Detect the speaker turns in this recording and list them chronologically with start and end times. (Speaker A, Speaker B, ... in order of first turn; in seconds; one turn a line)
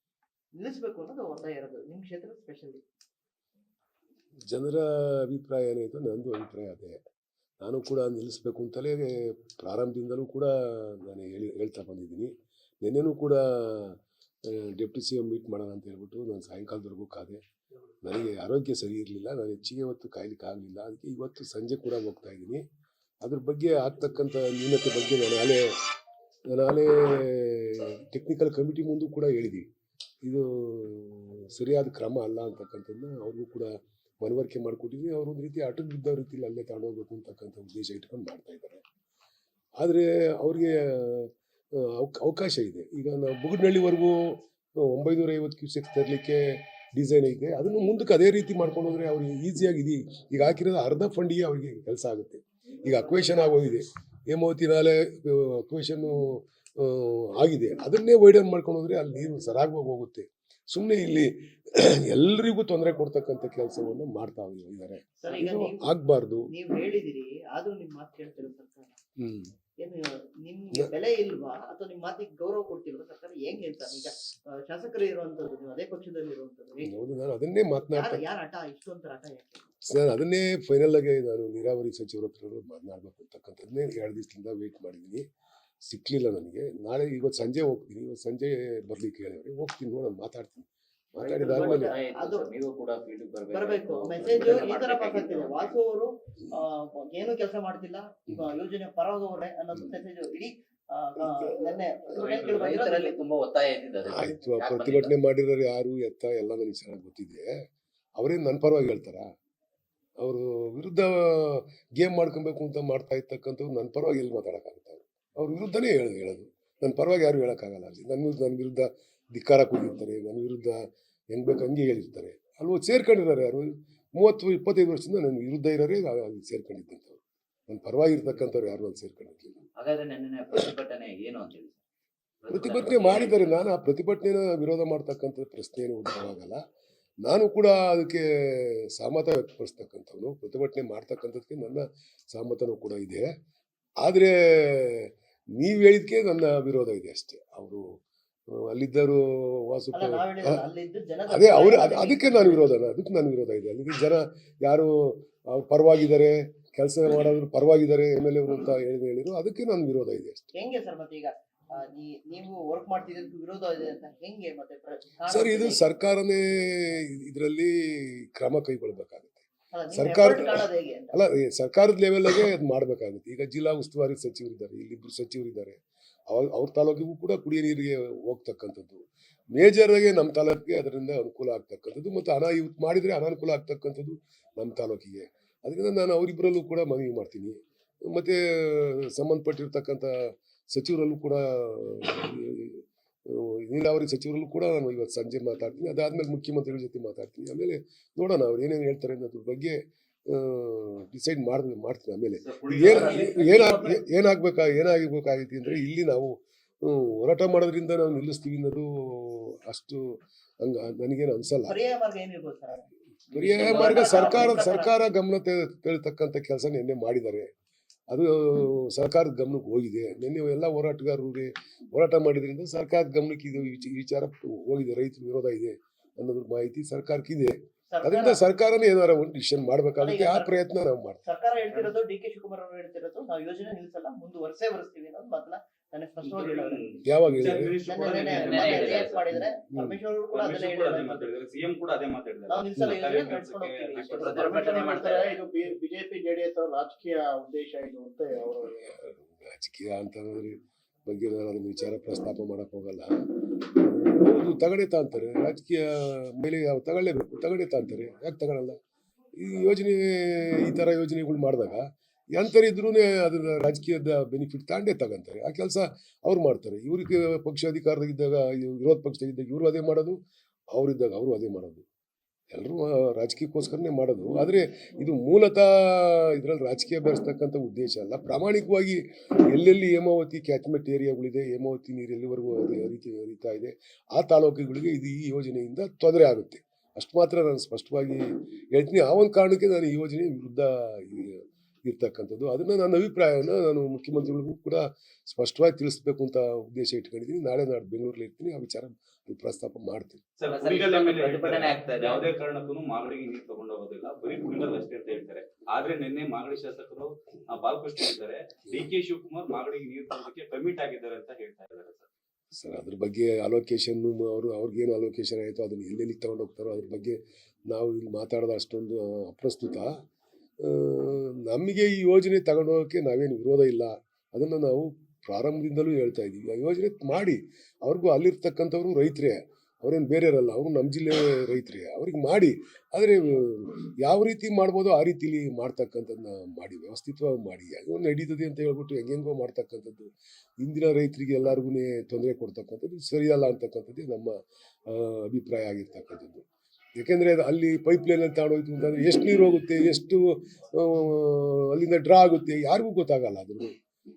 Speaker A: 0.6-2.8
Speaker B: 4.5-7.0
Speaker B: 7.6-12.3
Speaker B: 12.8-17.4
Speaker B: 18.0-22.6
Speaker B: 23.2-25.7
Speaker B: 26.5-29.6
Speaker B: 30.2-38.8
Speaker B: 39.8-66.5
Speaker A: 52.8-53.8
Speaker A: 65.2-65.8
Speaker A: 66.5-69.0
Speaker B: 69.2-69.5
Speaker A: 69.8-76.9
Speaker B: 76.8-78.2
Speaker A: 77.9-79.6
Speaker B: 79.8-85.2
Speaker B: 85.8-92.0
Speaker C: 91.2-95.7
Speaker A: 91.4-92.5
Speaker A: 93.5-103.2
Speaker B: 101.2-101.8
Speaker C: 102.1-105.1
Speaker B: 104.0-107.5
Speaker B: 108.2-109.3
Speaker B: 110.2-129.6
Speaker C: 129.8-131.8
Speaker C: 132.4-133.5
Speaker B: 132.5-136.6
Speaker B: 137.2-143.3
Speaker B: 144.0-147.8
Speaker B: 148.5-150.6
Speaker A: 149.9-152.7
Speaker B: 151.3-160.5
Speaker A: 160.5-165.9
Speaker B: 165.3-175.8
Speaker A: 169.7-171.2
Speaker B: 176.3-211.8
Speaker D: 202.5-203.9
Speaker A: 211.7-214.9
Speaker B: 213.3-217.5
Speaker B: 218.1-231.2
Speaker A: 227.9-228.4
Speaker A: 230.0-230.6
Speaker A: 231.2-236.9
Speaker D: 236.2-239.2
Speaker B: 237.1-237.8
Speaker A: 237.9-241.3
Speaker C: 238.2-239.2
Speaker B: 239.3-240.0
Speaker D: 240.3-244.6
Speaker A: 242.5-244.9
Speaker C: 244.2-245.3
Speaker E: 244.3-248.7
Speaker B: 248.8-253.1
Speaker B: 253.8-258.8
Speaker B: 259.4-270.2
Speaker B: 270.7-271.8
Speaker B: 272.5-300.2
Speaker D: 300.4-312.1
Speaker C: 300.4-302.3
Speaker B: 312.5-319.9
Speaker B: 320.6-346.4
Speaker B: 347.0-353.7